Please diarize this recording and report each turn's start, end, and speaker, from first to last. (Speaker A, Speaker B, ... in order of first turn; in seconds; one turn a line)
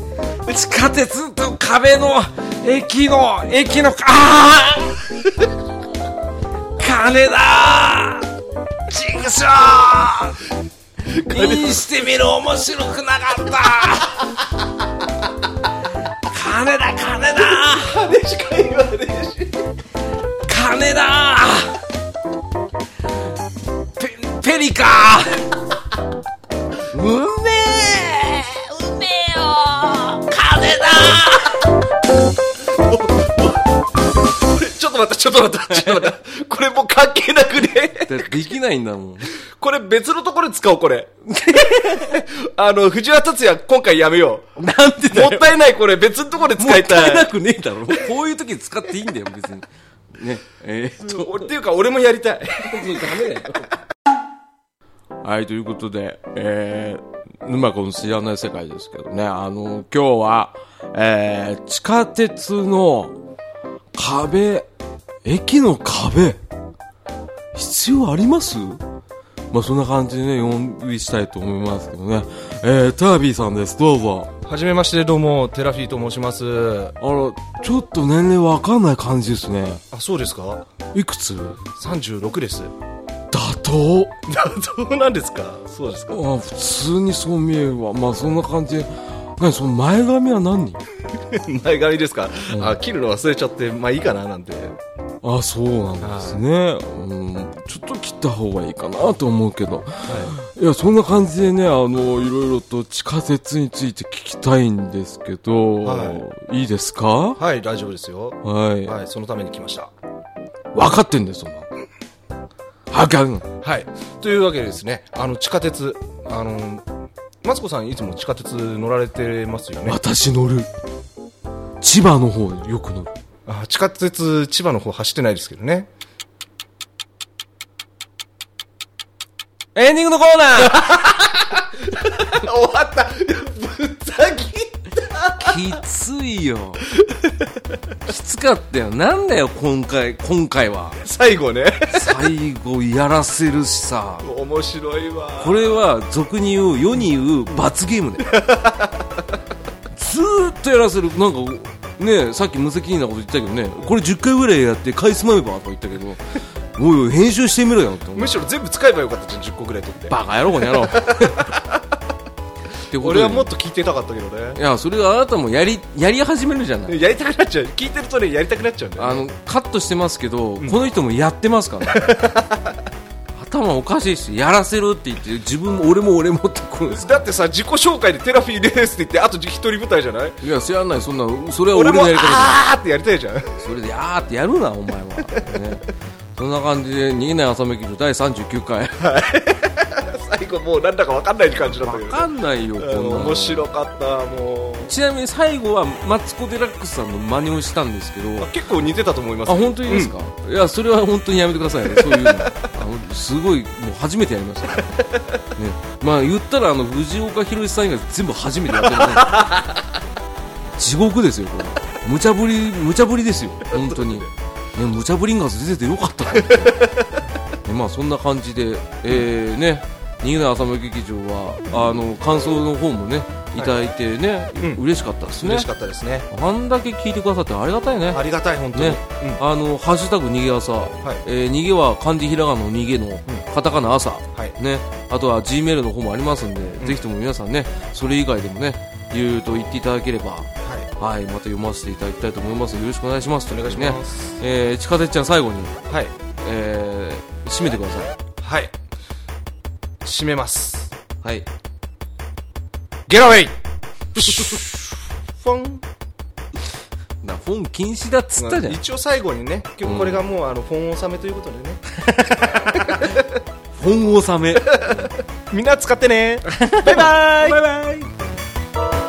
Speaker A: 0.5-5.1
Speaker A: 6.8-8.3
Speaker A: 8.9-10.4
Speaker B: 11.1-11.8
Speaker A: 11.2-14.3
Speaker A: 16.2-18.1
Speaker B: 17.6-19.6
Speaker A: 20.4-21.8
Speaker A: 24.0-25.6
Speaker A: 26.9-31.7
Speaker B: 32.8-33.7
Speaker B: 34.3-38.3
Speaker A: 35.7-36.1
Speaker A: 38.1-39.3
Speaker B: 39.3-41.1
Speaker A: 41.3-42.2
Speaker B: 41.8-44.6
Speaker A: 44.6-45.5
Speaker B: 45.1-47.3
Speaker A: 46.6-51.5
Speaker B: 51.0-53.4
Speaker A: 52.6-53.6
Speaker A: 55.2-63.1
Speaker A: 63.9-64.7
Speaker A: 65.2-66.4
Speaker A: 67.5-68.8
Speaker A: 69.5-74.3
Speaker B: 74.5-77.0
Speaker A: 77.0-79.8
Speaker B: 79.9-80.7
Speaker A: 80.9-81.7
Speaker B: 81.8-82.7
Speaker A: 83.3-84.2
Speaker B: 84.3-86.2
Speaker A: 86.1-90.8
Speaker B: 91.3-94.8
Speaker A: 92.5-92.8
Speaker A: 95.2-107.4
Speaker B: 96.0-96.4
Speaker B: 100.1-100.4
Speaker B: 105.8-106.2
Speaker B: 107.4-109.9
Speaker A: 108.4-109.0
Speaker A: 110.7-111.7
Speaker A: 112.9-113.5
Speaker B: 113.6-116.8
Speaker B: 117.4-120.0
Speaker A: 119.9-120.7
Speaker A: 121.8-123.2
Speaker B: 123.5-125.9
Speaker A: 129.8-131.0
Speaker B: 130.7-135.7
Speaker A: 135.4-136.8
Speaker B: 136.9-137.4
Speaker A: 138.1-141.0
Speaker B: 141.0-142.1
Speaker A: 141.9-144.3
Speaker B: 144.2-145.8
Speaker A: 145.4-148.4
Speaker B: 148.2-149.2
Speaker A: 149.9-156.2
Speaker A: 156.8-158.4
Speaker B: 158.2-161.8
Speaker A: 160.1-161.6
Speaker A: 162.9-163.5
Speaker B: 163.0-164.6
Speaker A: 164.6-167.0
Speaker B: 166.9-169.2
Speaker A: 169.0-172.1
Speaker B: 171.9-172.8
Speaker A: 173.3-177.2
Speaker B: 177.0-180.4
Speaker A: 180.4-182.6
Speaker B: 181.7-183.6
Speaker A: 183.6-189.0
Speaker B: 189.0-194.9
Speaker A: 191.8-193.7
Speaker A: 194.9-198.5
Speaker B: 198.4-200.1
Speaker A: 199.5-204.9
Speaker B: 201.9-202.7
Speaker A: 205.6-209.5
Speaker B: 208.9-209.8
Speaker A: 210.8-216.9
Speaker B: 213.9-214.2
Speaker B: 216.4-217.2
Speaker A: 217.6-225.7
Speaker B: 224.6-226.3
Speaker A: 226.3-228.2
Speaker B: 228.1-229.4
Speaker A: 228.7-245.8
Speaker B: 240.6-240.9
Speaker B: 243.5-244.3
Speaker B: 245.9-246.1
Speaker A: 246.4-248.1
Speaker B: 248.4-248.7
Speaker B: 250.0-250.9
Speaker A: 251.2-251.5
Speaker B: 253.1-253.6
Speaker B: 254.2-254.8
Speaker A: 254.2-254.6
Speaker B: 255.4-255.8
Speaker A: 257.2-258.8
Speaker B: 258.4-261.8
Speaker A: 259.9-260.2
Speaker A: 262.2-263.0
Speaker B: 262.4-263.2
Speaker A: 263.7-265.1
Speaker B: 264.7-267.6
Speaker A: 266.5-268.1